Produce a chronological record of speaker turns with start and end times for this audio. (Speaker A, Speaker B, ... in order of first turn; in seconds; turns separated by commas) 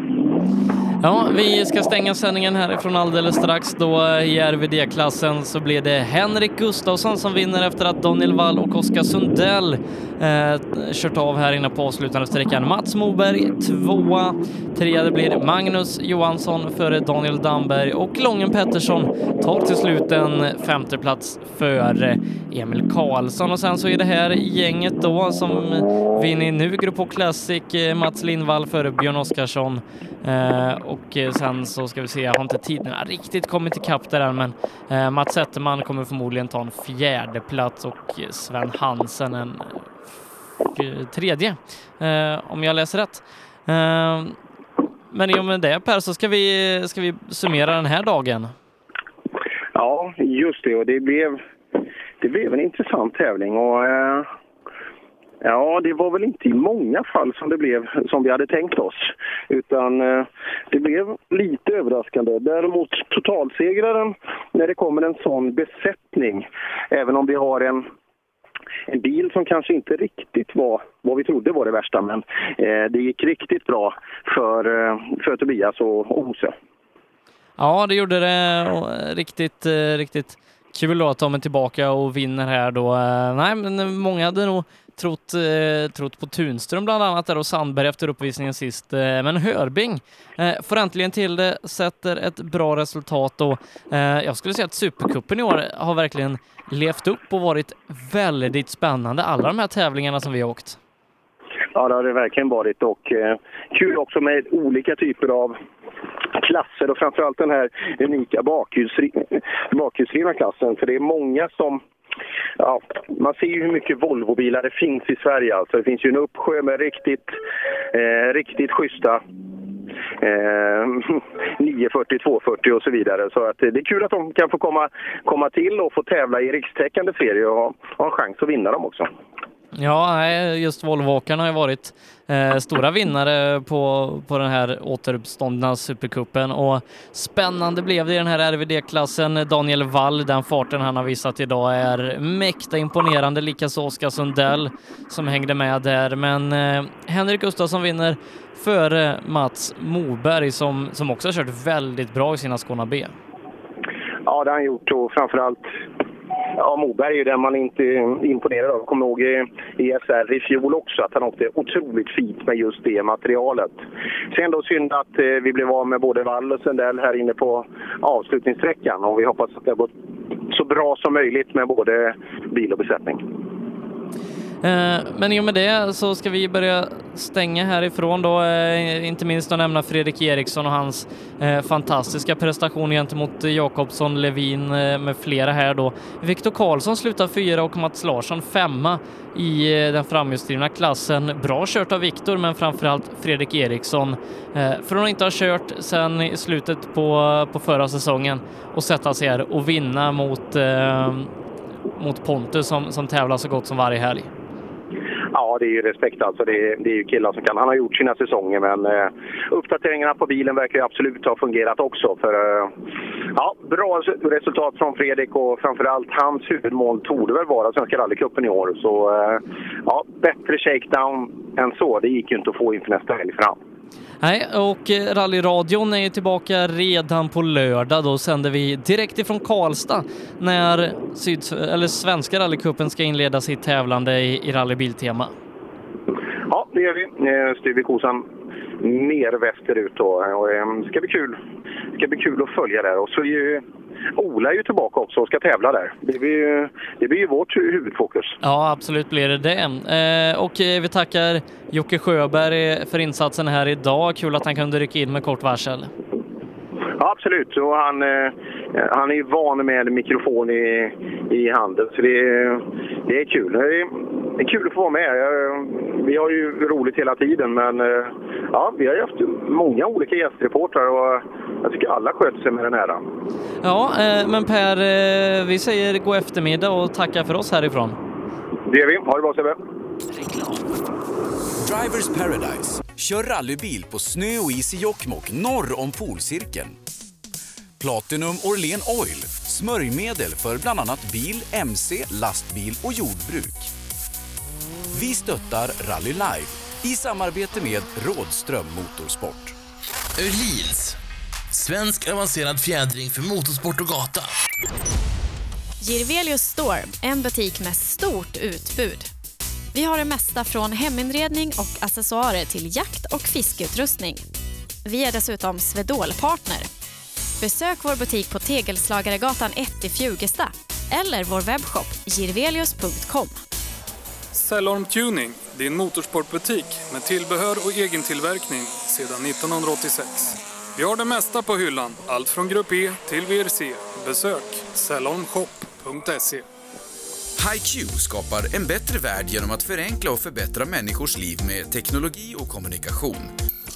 Speaker A: 1.0-39.8, Speaker A: 40.7-44.4, Speaker A: 45.1-48.5, Speaker B: 49.8-51.4, Speaker B: 52.2-54.3, Speaker B: 55.4-67.9, Speaker B: 68.9-76.5, Speaker A: 77.6-100.8, Speaker B: 101.7-105.6, Speaker B: 106.3-111.8, Speaker B: 112.6-117.4, Speaker B: 117.9-119.2, Speaker B: 120.2-129.1, Speaker A: 129.8-153.1, Speaker B: 154.3-155.7, Speaker B: 156.6-169.9, Speaker B: 170.5-173.2, Speaker A: 174.6-201.3, Speaker A: 202.0-204.3, Speaker B: 205.3-212.7, Speaker B: 213.3-223.6, Speaker A: 224.2-235.3, Speaker B: 236.5-238.2, Speaker B: 238.8-241.4, Speaker B: 242.0-243.6, Speaker B: 244.2-248.4, Speaker A: 248.4-255.9, Speaker B: 257.0-273.0, Speaker A: 273.6-278.0, Speaker B: 278.7-279.6, Speaker C: 281.6-286.8, Speaker C: 287.8-293.7, Speaker C: 294.9-299.6, Speaker D: 300.2-301.0, Speaker D: 301.5-304.3, Speaker E: 305.8-309.1, Speaker E: 309.7-314.2, Speaker E: 314.9-316.7, Speaker E: 317.4-323.4, Speaker F: 324.3-336.5, Speaker D: 328.2-329.3, Speaker C: 337.4-343.3